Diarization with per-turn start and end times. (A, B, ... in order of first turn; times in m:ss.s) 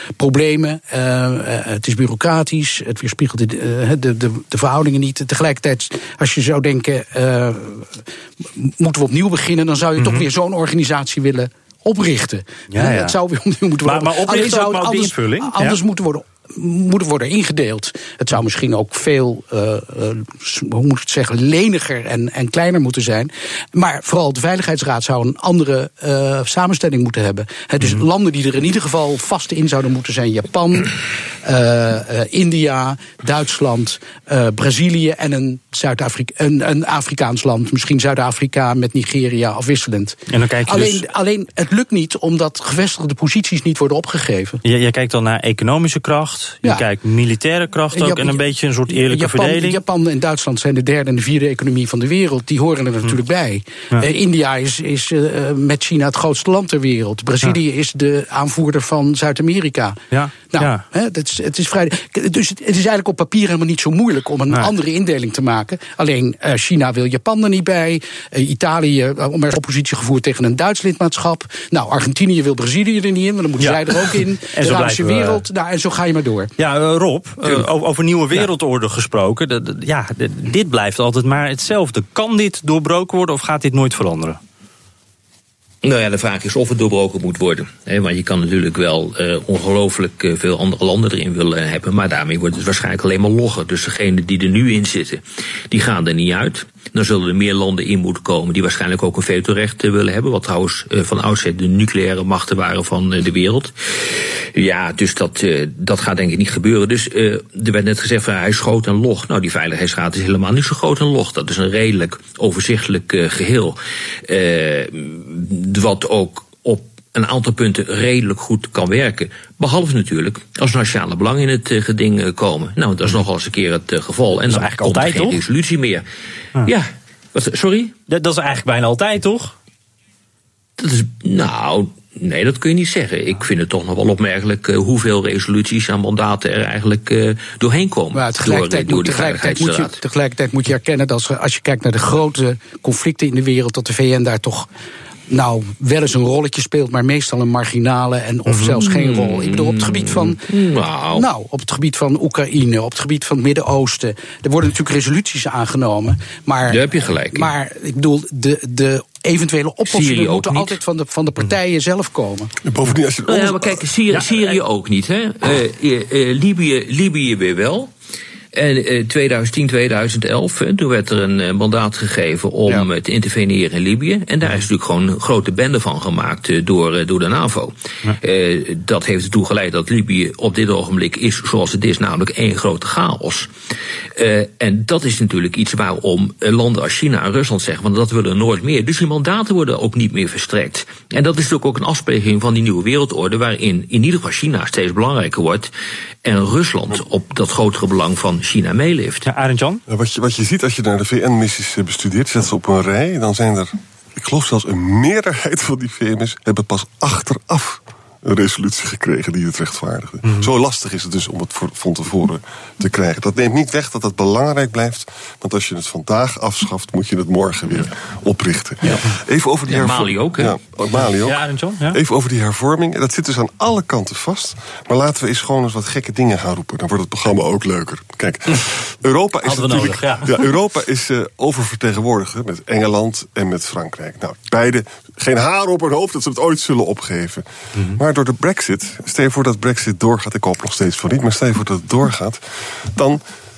0:00.2-0:44.6 A
0:10.0-0:10.3 B
0:12.7-0:13.2 B
0:13.8-0:15.8 B
0:40.3-0:41.0 B
0:44.6-0:49.8 B
0:47.9-1:00.0 A
1:00.1-1:00.8 B
1:00.5-1:16.5 A
1:13.6-1:15.4 B
1:16.6-1:24.4 B
1:25.8-2:06.0 C
2:04.5-2:05.4 B
2:06.6-2:07.9 C
2:08.1-2:09.5 B
2:10.8-2:20.0 C
2:18.1-2:24.7 A
2:25.3-2:30.4 A
2:28.5-2:28.7 B
2:28.8-2:31.3 C
2:31.1-2:42.5 A
2:36.7-2:37.5 C
2:39.9-2:40.8 C
2:42.6-2:43.9 D
2:43.3-2:47.9 C
2:44.2-2:44.4 B
2:48.5-3:03.5 C
3:04.2-3:15.7 C
3:16.2-3:19.3 C
3:19.3-3:19.8 B
3:19.9-3:41.4 D
3:30.2-3:30.5 B
3:39.7-3:40.6 C
3:41.2-3:42.0 B
3:41.9-4:03.2 D
3:49.4-3:50.4 B